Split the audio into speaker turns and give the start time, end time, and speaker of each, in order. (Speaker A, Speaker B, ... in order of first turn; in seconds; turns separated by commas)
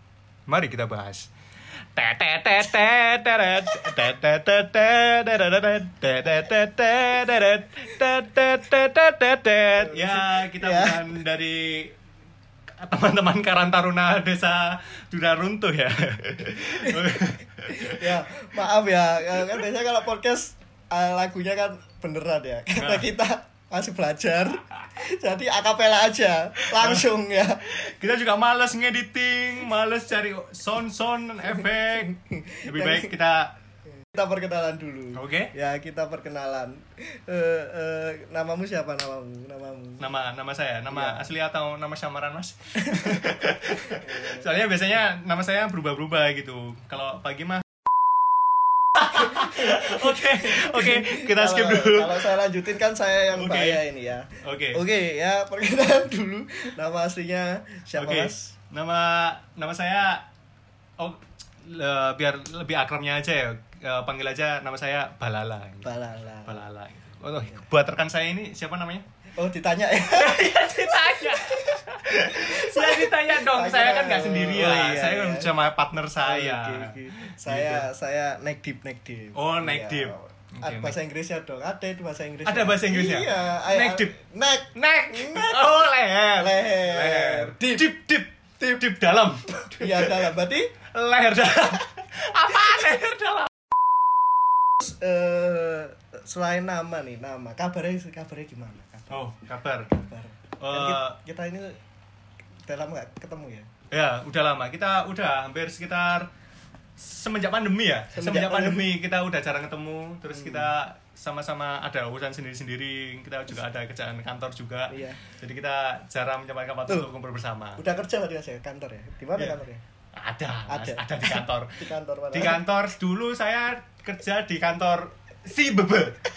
Speaker A: 0.5-1.3, Speaker A: 2.0-11.9, Speaker B: 9.8-11.0, Speaker A: 12.8-18.2, Speaker B: 17.7-27.6, Speaker A: 22.8-23.1, Speaker A: 26.6-27.1, Speaker A: 27.6-33.5, Speaker B: 32.1-33.1, Speaker B: 34.1-40.1, Speaker A: 35.1-35.5, Speaker A: 40.0-47.6, Speaker B: 40.9-41.2, Speaker B: 43.9-44.5, Speaker A: 49.0-52.4, Speaker B: 50.4-58.5, Speaker A: 53.3-53.8, Speaker A: 54.4-54.8, Speaker A: 58.0-60.3, Speaker A: 61.0-65.9, Speaker B: 65.8-66.6, Speaker A: 66.5-69.0, Speaker B: 69.4-71.8, Speaker A: 70.0-77.9, Speaker B: 72.3-75.5, Speaker B: 76.2-85.7, Speaker A: 79.3-81.0, Speaker A: 82.5-84.1, Speaker A: 84.8-90.3, Speaker B: 86.3-87.9, Speaker B: 89.8-90.7, Speaker A: 90.9-93.5, Speaker B: 94.8-99.2, Speaker A: 99.1-99.9, Speaker B: 99.9-101.8, Speaker A: 100.6-101.2, Speaker B: 102.7-103.7, Speaker A: 103.9-106.3, Speaker A: 107.0-117.8, Speaker B: 108.1-108.9, Speaker B: 110.3-110.7, Speaker B: 114.9-115.2, Speaker B: 117.8-119.8, Speaker A: 120.2-121.7, Speaker B: 120.7-122.6, Speaker A: 122.3-126.2